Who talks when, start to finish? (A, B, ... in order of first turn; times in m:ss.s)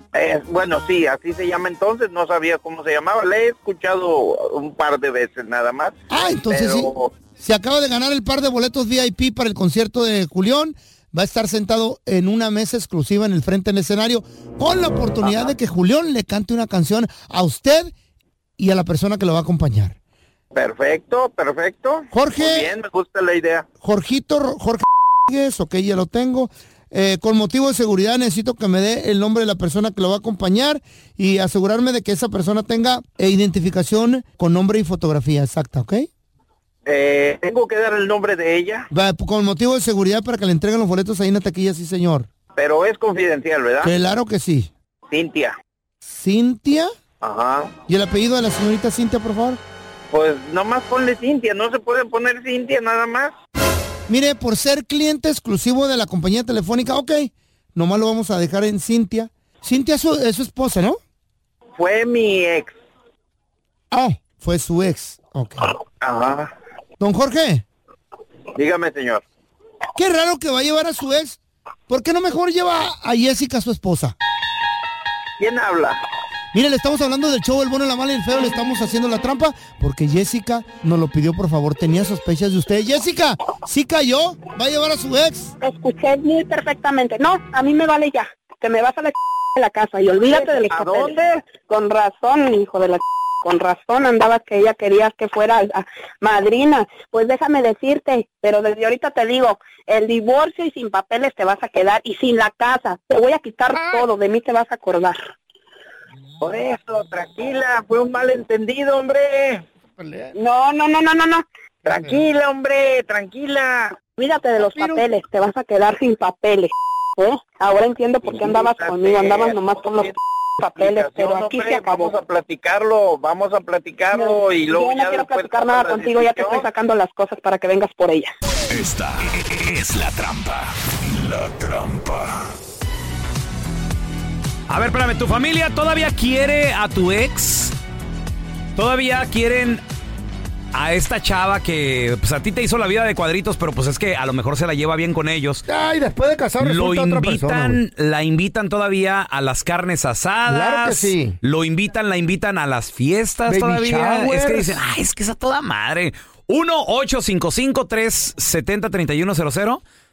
0:00.1-0:07.1 A
0:06.1-0:17.9 B
0:15.2-0:15.5 A
0:18.6-0:20.0 B
0:20.5-0:23.7 A
0:22.1-0:22.7 B
0:23.8-0:36.1 B
0:36.8-0:38.9 A
0:38.9-0:42.3 B
0:42.6-0:43.9 A
0:43.8-0:44.7 B
0:45.1-0:45.5 A
0:46.0-0:46.9 B
0:47.2-0:47.7 A
0:47.9-0:49.6 B
0:50.1-0:53.3 A
0:54.1-1:01.0 B
1:01.8-1:02.7 A
1:03.9-1:05.7 B
1:06.0-1:06.5 A
1:07.0-1:07.6 B
1:08.6-1:09.2 A
1:10.0-1:14.2 B
1:15.4-1:16.0 A
1:16.5-1:25.5 B
1:25.6-1:45.2 C
1:30.3-1:31.5 A
1:43.8-1:44.0 B
1:46.4-1:49.6 A
1:50.0-1:50.3 B
1:50.3-1:51.4 C
1:51.8-1:54.0 A
1:54.2-2:02.1 C
1:54.7-1:55.0 B
1:58.3-1:59.6 A
2:00.8-2:06.6 A
2:04.1-2:08.3 C
2:08.7-2:12.5 D
2:14.7-2:17.7 E
2:18.8-2:19.8 E
2:20.7-2:25.6 E
2:25.7-2:27.8 B
2:26.6-2:39.8 E
2:30.5-2:31.4 B
2:33.5-2:34.8 B